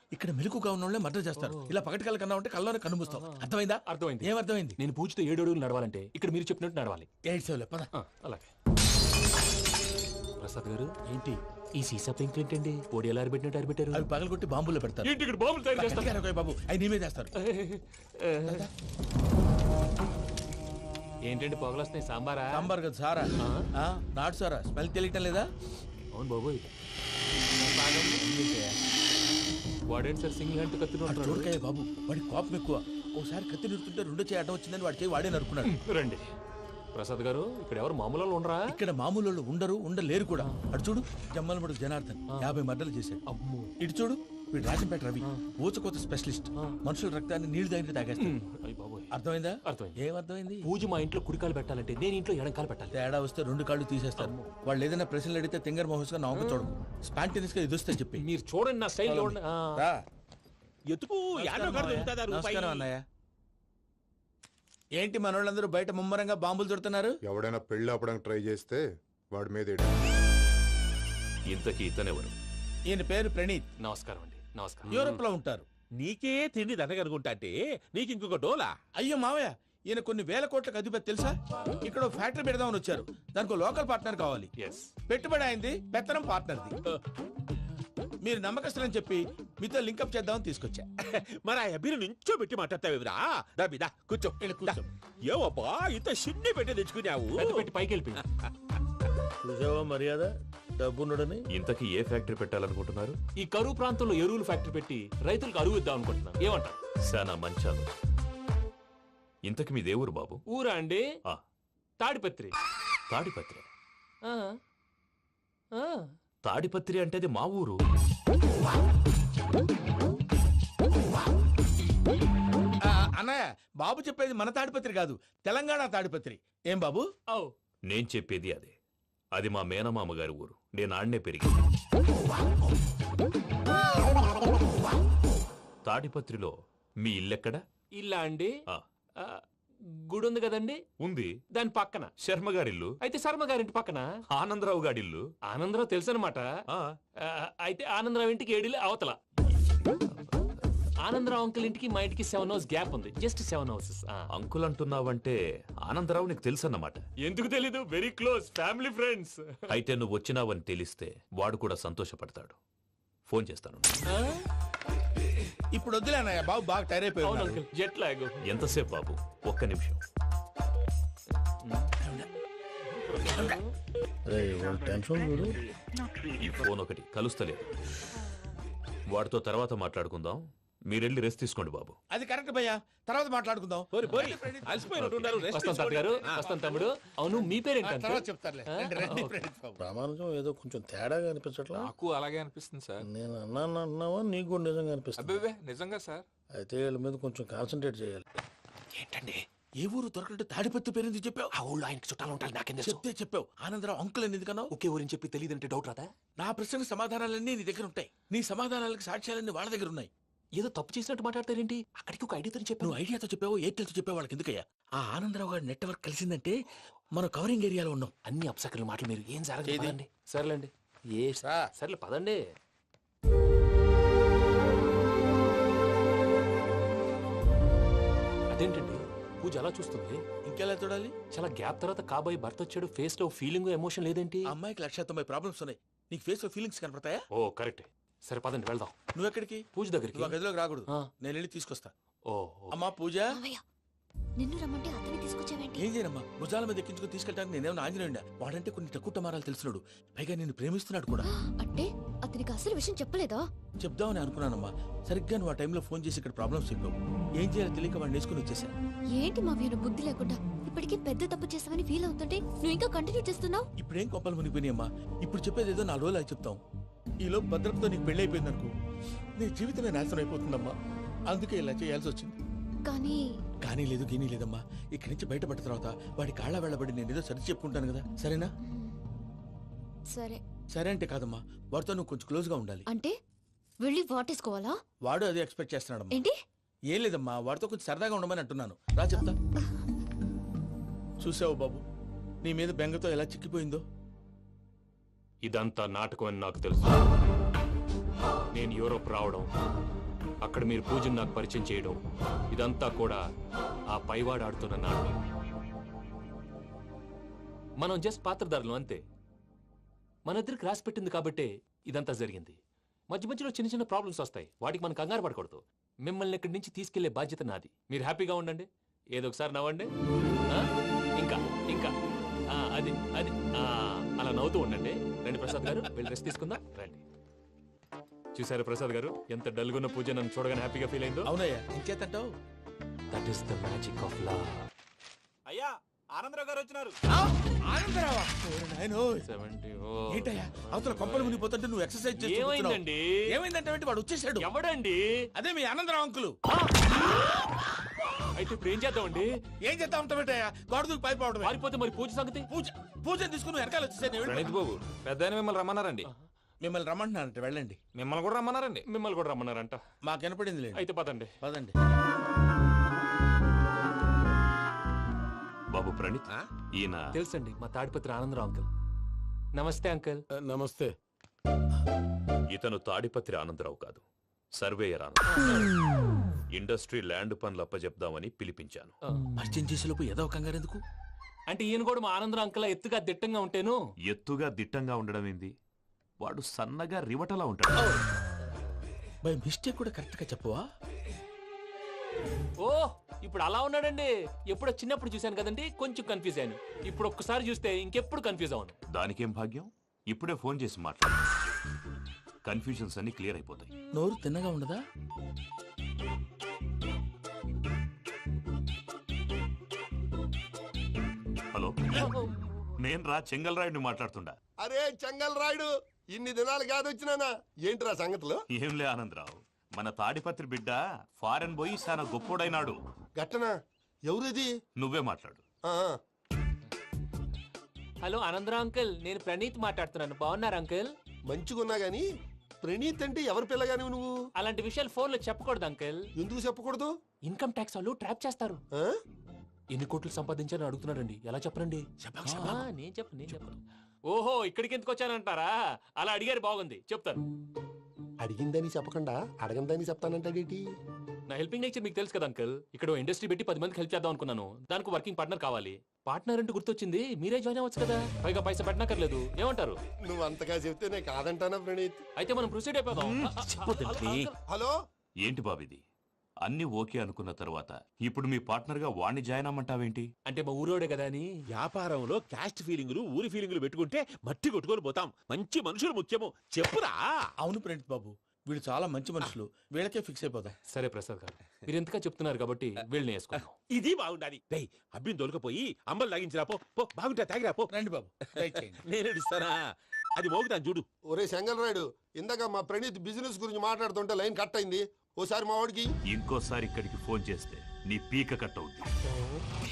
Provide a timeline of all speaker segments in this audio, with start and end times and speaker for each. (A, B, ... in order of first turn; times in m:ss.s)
0:00.1-0:04.8 A
0:01.4-0:01.7 B
0:03.1-0:07.1 B
0:07.3-0:07.9 A
0:07.9-0:08.5 B
0:10.4-0:14.0 B
0:13.9-0:15.2 A
0:15.0-0:16.1 B
0:15.8-0:17.3 A
0:17.4-0:18.7 B
0:18.4-0:18.7 A
0:21.3-0:22.7 B
0:22.5-0:25.5 A
0:23.4-0:23.7 B
0:26.1-0:26.7 B
0:27.6-0:28.3 B
0:28.2-0:28.7 A
0:29.9-0:31.5 B
0:31.1-0:35.7 A
0:35.7-0:36.3 B
0:36.9-0:38.8 B
0:38.7-0:43.2 A
0:43.3-0:43.7 B
0:43.8-0:48.4 A
0:48.2-0:49.1 B
0:49.1-0:50.7 A
0:49.7-0:50.0 B
0:50.6-0:53.0 B
0:52.9-0:58.2 A
0:54.2-0:54.5 B
0:56.4-0:56.7 B
0:58.2-0:59.9 B
0:59.0-1:00.0 A
1:00.9-1:02.9 C
1:01.4-1:03.0 A
1:05.0-1:07.2 A
1:07.2-1:09.9 D
1:11.5-1:12.3 E
1:12.9-1:13.7 A
1:13.8-1:15.0 B
1:14.9-1:15.7 A
1:14.9-1:15.2 C
1:16.0-1:18.7 C
1:19.0-1:24.5 A
1:24.6-1:24.9 B
1:25.1-1:26.8 A
1:28.2-1:30.9 A
1:31.2-1:37.7 C
1:34.4-1:34.9 A
1:37.4-1:38.2 B
1:39.4-1:40.3 F
1:40.8-1:41.4 F
1:41.5-1:43.2 E
1:43.4-1:46.8 B
1:47.1-1:47.9 E
1:49.4-1:50.4 E
1:50.5-1:51.0 B
1:52.0-1:52.5 B
1:53.1-1:53.7 E
1:54.3-1:54.6 B
1:55.8-1:56.1 B
1:56.4-1:57.8 E
2:02.8-2:07.1 A
2:07.9-2:08.7 E
2:09.3-2:11.5 E
2:15.8-2:17.6 E
2:18.0-2:18.5 B
2:20.1-2:20.8 B
2:21.0-2:21.3 E
2:21.5-2:22.1 B
2:22.2-2:22.9 E
2:23.0-2:24.0 B
2:24.3-2:25.2 E
2:25.5-2:26.4 B
2:27.3-2:29.2 B
2:31.0-2:34.3 B
2:34.3-2:37.0 E
2:37.2-2:39.6 B
2:39.7-2:42.6 E
2:43.3-2:44.0 E
2:44.1-2:44.4 B
2:45.7-2:47.6 A
2:47.2-2:48.4 B
2:48.4-2:50.0 E
2:51.6-2:51.9 B
2:52.0-2:52.3 A
2:53.0-2:53.6 B
2:54.3-2:55.6 F
2:56.4-2:57.8 E
2:59.1-3:02.0 E
3:02.1-3:05.2 A
3:03.9-3:06.5 C
3:05.4-3:09.4 B
3:06.4-3:06.7 A
3:07.8-3:09.8 A
3:09.8-3:11.9 F
3:11.7-3:13.1 G
3:13.0-3:15.4 F
3:15.2-3:16.2 G
3:16.6-3:18.2 F
3:18.9-3:19.4 B
3:19.8-3:21.5 A
3:21.6-3:23.0 B
3:22.8-3:24.7 A
3:24.7-3:26.1 B
3:26.4-3:30.1 A
3:30.6-3:33.0 B
3:32.8-3:36.6 A
3:37.2-3:38.1 A
3:38.3-3:42.4 B
3:39.6-3:40.0 A
3:48.5-3:50.2 B
3:50.5-3:51.2 A
3:51.3-3:54.5 B
3:54.5-3:57.2 A
3:57.4-3:58.9 B
3:59.1-4:01.9 A
3:59.7-4:00.4 B
4:02.3-4:02.8 B
4:02.7-4:03.4 A
4:03.3-4:03.6 H
4:04.4-4:05.8 H
4:05.8-4:11.3 A
4:11.3-4:13.4 H
4:13.8-4:18.7 A
4:19.2-4:23.7 H
4:23.8-4:26.6 A
4:27.2-4:28.7 A
4:29.4-4:30.8 A
4:31.3-4:32.4 A
4:32.8-4:33.2 H
4:33.6-4:38.5 A
4:38.6-4:38.9 H
4:40.1-4:40.4 H
4:40.7-4:42.8 A
4:42.9-4:43.1 H
4:43.8-4:44.8 H
4:45.0-4:46.2 A
4:46.9-4:49.4 A
4:51.2-4:51.8 A
4:52.4-4:53.8 A
4:55.4-4:56.9 B
4:58.5-4:59.5 B
5:00.4-5:02.0 B
5:02.5-5:03.2 B
5:03.9-5:05.2 B
5:07.8-5:09.0 B
5:10.3-5:12.6 B
5:13.1-5:19.9 B
5:20.5-5:21.9 B
5:22.5-5:27.0 B
5:28.4-5:31.3 B
5:31.2-5:32.3 A
5:33.1-5:34.6 B
5:37.1-5:39.3 A
5:39.2-5:41.5 B
5:40.1-5:44.5 A
5:42.2-5:43.3 B
5:44.4-5:45.3 B
5:45.4-5:46.4 A
5:48.3-5:49.3 B
5:49.6-5:51.6 A
5:51.4-5:52.5 B
5:52.5-5:54.6 A
5:54.4-5:55.2 G
5:56.6-5:57.8 A
5:58.0-5:58.8 G
5:58.9-5:59.8 B
6:00.0-6:00.9 A
6:00.8-6:01.3 B
6:01.4-6:01.7 A
6:05.7-6:07.1 E
6:07.1-6:08.7 B
6:09.6-6:10.2 B
6:12.5-6:14.0 E
6:14.6-6:15.6 E
6:15.3-6:15.7 B
6:16.5-6:18.9 E
6:19.4-6:20.8 A
6:21.5-6:23.8 B
6:24.0-6:25.5 E
6:26.2-6:27.9 E
6:29.2-6:30.6 A
6:32.6-6:38.8 B
6:38.9-6:41.5 E
6:42.4-6:43.7 E
6:43.9-6:44.8 A
6:51.5-6:52.1 E
6:52.8-6:54.4 E
6:54.6-6:58.4 I
6:58.5-7:02.8 E
7:03.2-7:03.5 I
7:04.1-7:04.5 I
7:04.8-7:05.4 E
7:05.7-7:06.0 I
7:08.0-7:10.9 B
7:11.3-7:12.0 I
7:12.6-7:14.1 I
7:14.4-7:16.0 B
7:16.2-7:16.9 I
7:17.3-7:18.6 B
7:19.7-7:21.8 B
7:22.0-7:22.6 C
7:22.2-7:22.6 A
7:22.4-7:23.6 B
7:24.1-7:27.2 B
7:28.2-7:30.6 I
7:31.3-7:39.8 B
7:40.1-7:42.0 I
7:42.2-7:44.3 B
7:43.5-7:44.3 C
7:45.2-7:45.8 E
7:46.4-7:50.1 E
7:50.3-7:51.3 B
7:51.5-7:57.0 C
7:57.4-8:00.6 A
8:00.7-8:03.5 B
8:03.7-8:07.7 C
8:07.7-8:08.8 A
8:08.4-8:09.6 C
8:10.2-8:10.8 C
8:11.1-8:15.9 I
8:16.1-8:18.9 E